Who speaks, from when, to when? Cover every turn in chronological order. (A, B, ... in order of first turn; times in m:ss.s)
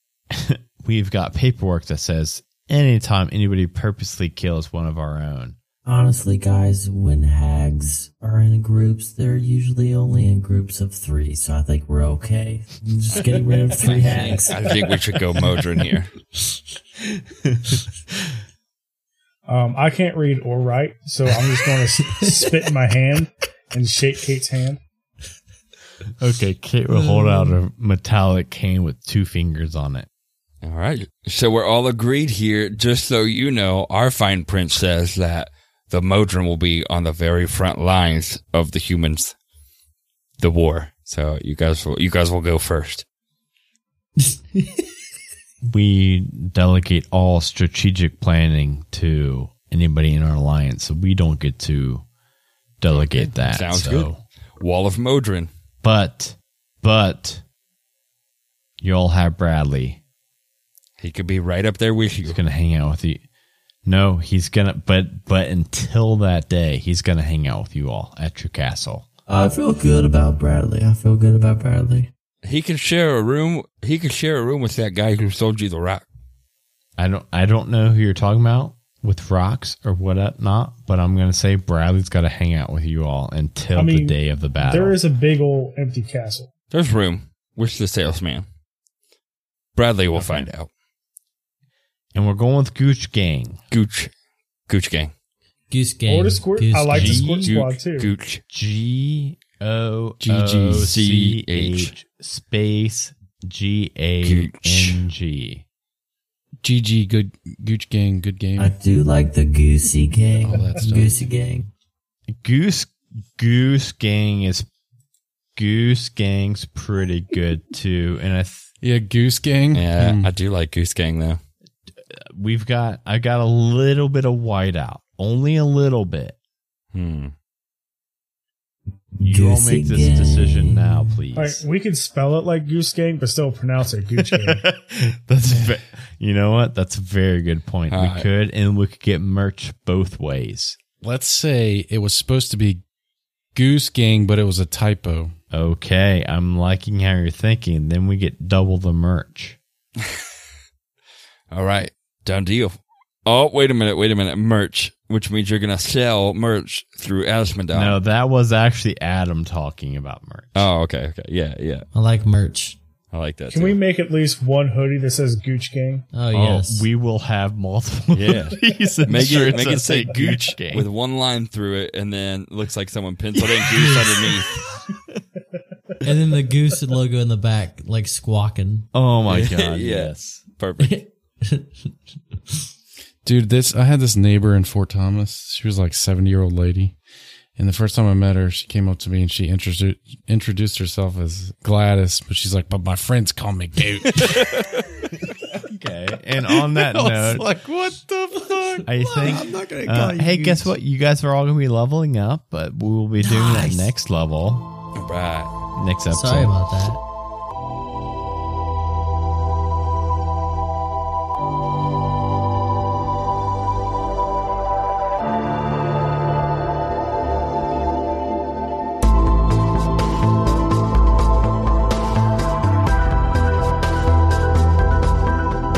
0:00.3-0:05.6 A
0:05.9-0:14.8 B
0:13.8-0:16.1 C
0:17.4-0:17.8 A
0:19.5-0:24.8 D
0:26.2-0:30.1 A
0:26.9-0:27.6 B
0:30.6-0:39.3 C
0:40.4-0:43.0 C
0:45.6-0:52.0 A
0:52.8-0:54.2 A
0:53.0-0:55.5 C
0:55.8-0:57.4 A
0:58.8-1:00.0 A
1:01.0-1:02.4 C
1:02.2-1:03.2 A
1:03.8-1:09.1 A
1:09.3-1:12.1 B
1:12.4-1:16.0 C
1:17.0-1:25.0 A
1:23.8-1:26.5 D
1:26.7-1:28.5 C
1:29.8-1:30.7 C
1:30.2-1:30.5 A
1:32.2-1:33.6 A
1:33.7-1:34.1 C
1:34.7-1:35.1 C
1:35.7-1:37.4 B
1:36.1-1:38.1 D
1:36.9-1:37.6 A
1:37.4-1:38.4 C
1:38.5-1:45.6 A
1:40.2-1:40.9 E
1:40.7-1:41.9 C
1:44.2-1:45.0 C
1:46.6-1:48.7 E
1:48.6-1:51.7 B
1:50.4-1:51.2 E
1:52.3-1:54.7 A
1:55.6-1:58.7 A
1:58.8-2:00.3 E
1:59.7-2:01.4 C
2:02.3-2:06.4 A
2:06.9-2:07.3 C
2:09.2-2:11.2 B
2:09.2-2:11.6 A
2:11.4-2:14.6 D
2:14.2-2:20.8 A
2:17.9-2:18.3 C
2:21.0-2:22.8 E
2:23.5-2:25.4 E
2:25.5-2:29.6 A
2:31.5-2:38.0 C
2:37.7-2:40.7 A
2:40.6-2:41.9 C
2:41.9-2:42.8 B
2:43.1-2:43.8 C
2:43.5-2:46.1 D
2:46.1-2:46.9 B
2:46.3-2:50.9 A
2:48.1-2:54.5 C
2:53.7-2:54.2 B
2:56.0-2:58.9 B
2:58.9-3:00.4 A
2:59.3-3:01.0 C
3:00.8-3:01.7 B
3:03.2-3:07.0 E
3:07.6-3:14.8 E
3:15.5-3:24.7 A
3:16.5-3:18.3 E
3:18.6-3:20.7 B
3:19.3-3:20.6 E
3:23.2-3:23.9 B
3:25.0-3:25.5 C
3:25.8-3:26.6 A
3:26.1-3:27.0 B